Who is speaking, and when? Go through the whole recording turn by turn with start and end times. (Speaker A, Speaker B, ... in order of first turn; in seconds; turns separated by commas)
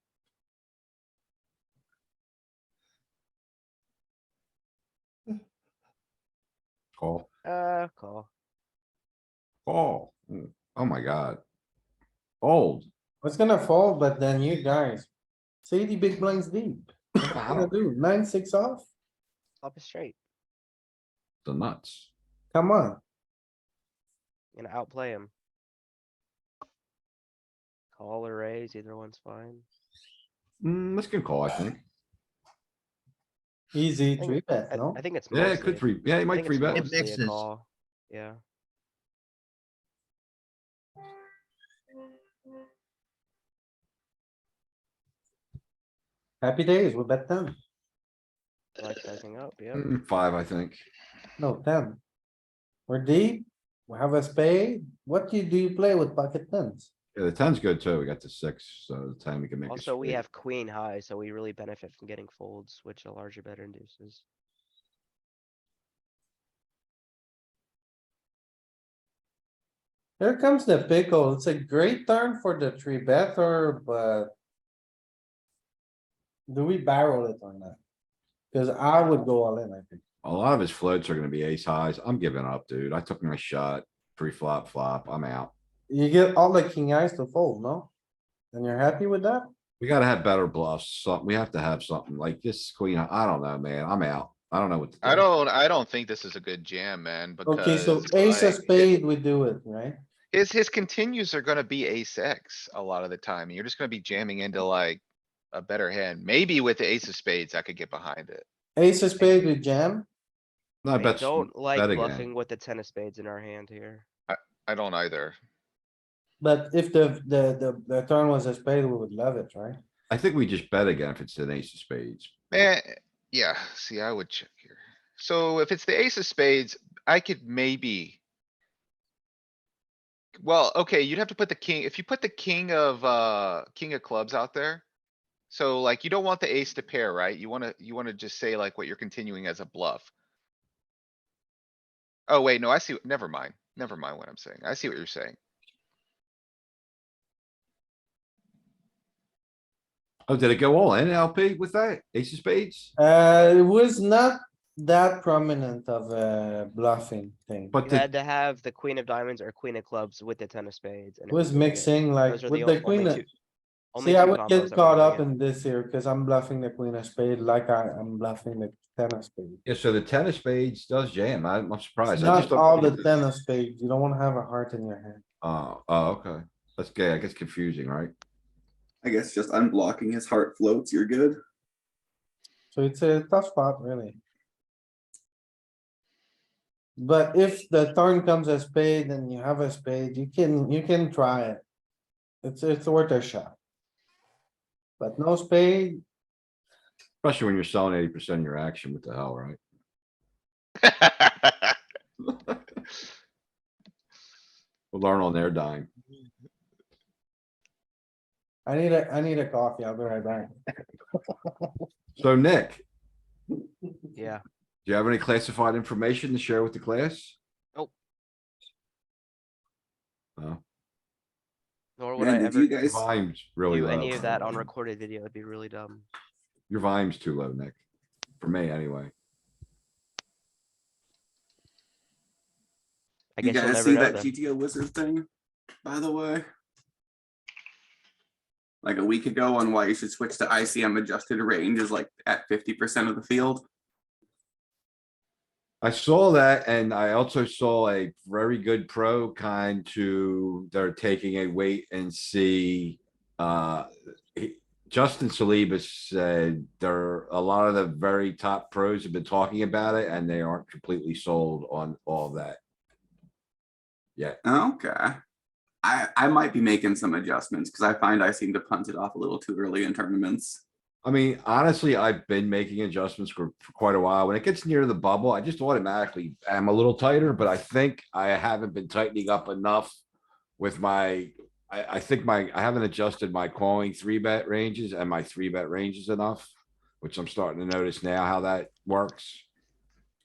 Speaker A: 7.0-7.3, Speaker B: 7.4-8.3, Speaker A: 9.7-11.4, Speaker A: 12.4-12.9, Speaker C: 13.2-15.1, Speaker C: 15.7-18.9, Speaker A: 17.2-17.7, Speaker B: 19.6-20.2, Speaker A: 21.4-22.1, Speaker C: 22.5-23.0, Speaker B: 24.6-25.3, Speaker B: 27.9-29.6, Speaker A: 30.6-31.8, Speaker C: 33.7-35.0, Speaker B: 34.2-38.4, Speaker A: 35.3-37.0, Speaker C: 46.4-47.6, Speaker B: 48.8-49.9, Speaker A: 49.7-50.8, Speaker C: 51.4-52.0, Speaker C: 52.9-56.9, Speaker A: 57.1-60.2, Speaker B: 59.7-64.2, Speaker C: 70.2-74.3, Speaker C: 76.5-77.8, Speaker C: 78.5-80.0, Speaker A: 80.2-85.5, Speaker C: 85.9-87.9, Speaker C: 88.5-89.5, Speaker A: 89.8-95.2, Speaker D: 95.0-98.9, Speaker C: 97.5-100.0, Speaker D: 100.3-105.0, Speaker D: 105.5-108.5, Speaker C: 108.8-110.1, Speaker B: 109.2-109.5, Speaker A: 110.8-112.3, Speaker B: 111.0-114.0, Speaker D: 114.3-115.4, Speaker C: 116.4-119.8, Speaker A: 120.1-122.3, Speaker D: 122.5-128.2, Speaker D: 130.4-134.8, Speaker D: 135.5-140.1, Speaker D: 142.3-145.4, Speaker A: 150.3-152.9, Speaker C: 153.0-157.8, Speaker A: 157.7-158.1, Speaker B: 157.8-163.3, Speaker C: 161.3-163.2, Speaker B: 163.9-165.3, Speaker C: 164.0-169.6, Speaker A: 169.7-173.1, Speaker C: 172.1-175.2, Speaker A: 175.4-178.1, Speaker E: 179.0-181.4, Speaker C: 182.7-184.2, Speaker C: 187.0-191.6, Speaker C: 192.4-193.6, Speaker C: 195.0-196.0, Speaker A: 197.2-199.6, Speaker D: 200.8-201.5, Speaker A: 204.9-205.9, Speaker C: 208.7-210.5, Speaker C: 211.3-211.7, Speaker A: 212.2-212.8, Speaker B: 214.2-214.4, Speaker A: 214.9-217.4, Speaker B: 222.0-222.8, Speaker E: 222.2-223.1, Speaker A: 222.8-224.7, Speaker B: 223.7-226.1, Speaker A: 226.7-227.8, Speaker A: 228.4-229.1, Speaker B: 233.4-234.3, Speaker E: 233.4-235.3, Speaker E: 235.8-236.5, Speaker E: 238.8-243.7, Speaker A: 245.8-262.6, Speaker E: 264.4-265.2, Speaker E: 265.8-270.6, Speaker A: 271.0-280.0, Speaker A: 280.6-289.4